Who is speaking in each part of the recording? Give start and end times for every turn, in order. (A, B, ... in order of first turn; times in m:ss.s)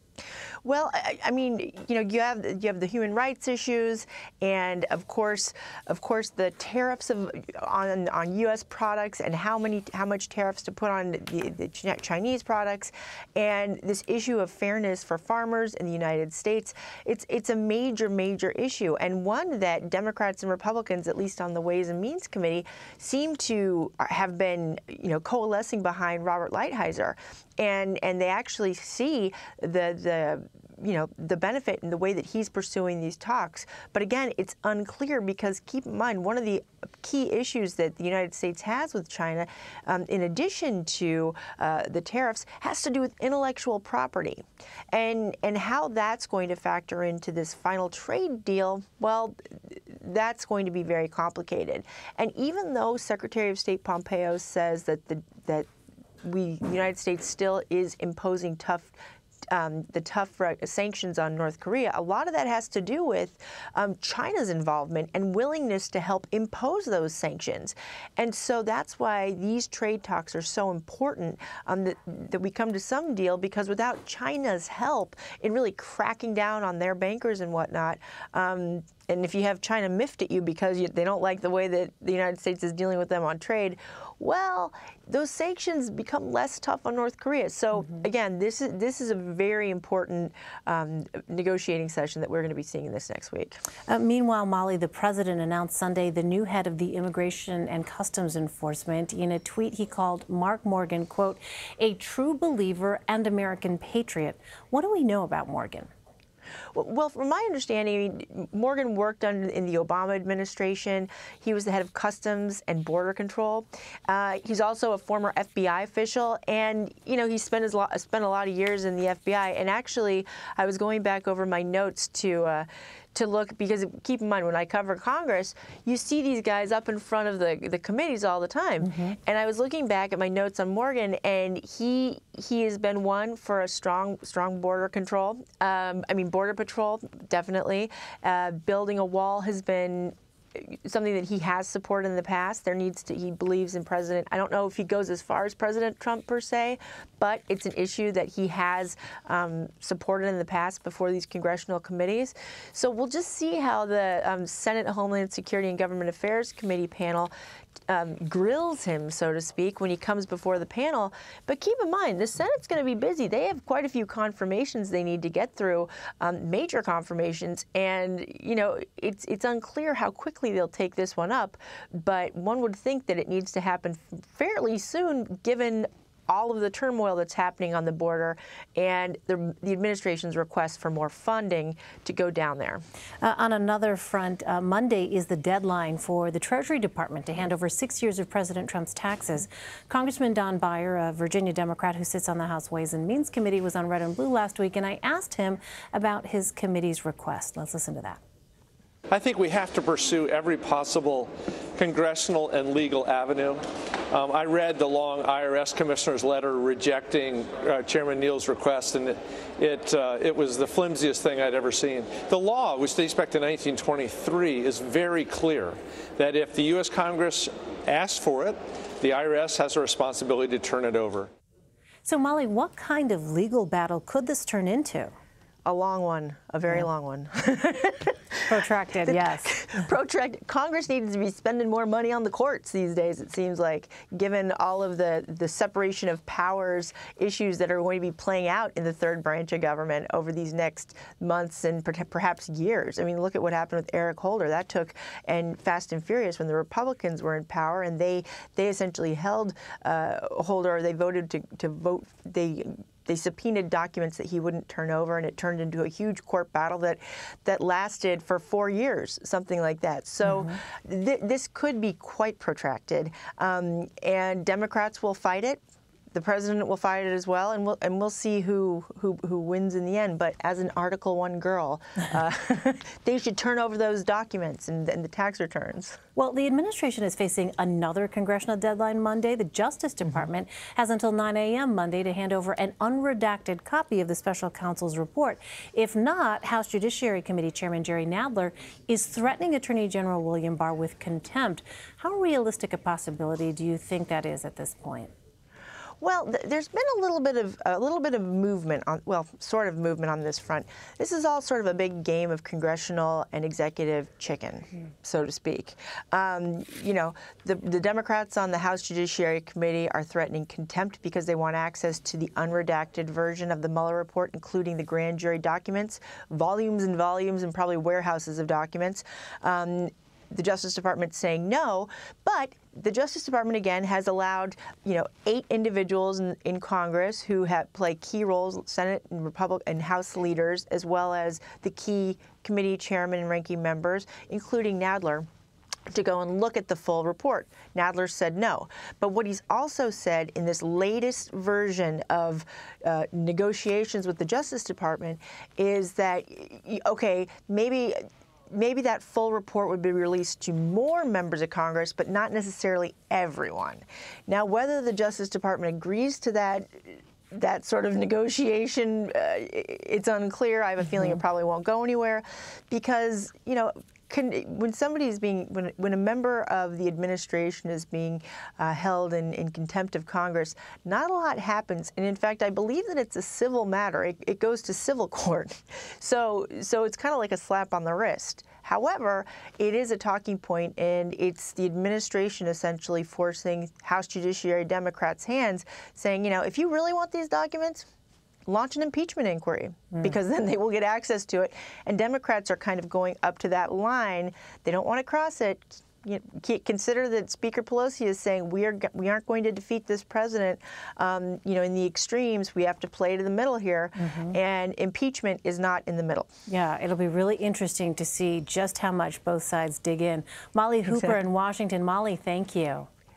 0:00.6-0:55.6 A
0:56.2-0:59.0 A
0:59.5-1:33.6 A
1:33.9-1:45.9 B
1:46.7-2:37.3 A
2:08.8-2:09.2 B
2:37.9-3:02.8 A
3:03.2-3:18.2 B
3:19.1-3:41.3 C
3:42.0-3:45.1 B
3:45.6-3:48.2 A
3:48.5-3:49.5 B
3:49.0-4:25.6 A
4:20.2-4:20.6 B
4:26.1-4:36.0 A
4:36.2-4:55.1 B
4:56.0-5:35.3 A
5:35.9-6:27.9 A
6:28.5-6:46.3 A
6:44.0-6:44.4 B
6:46.5-6:52.9 B
6:50.9-6:51.2 A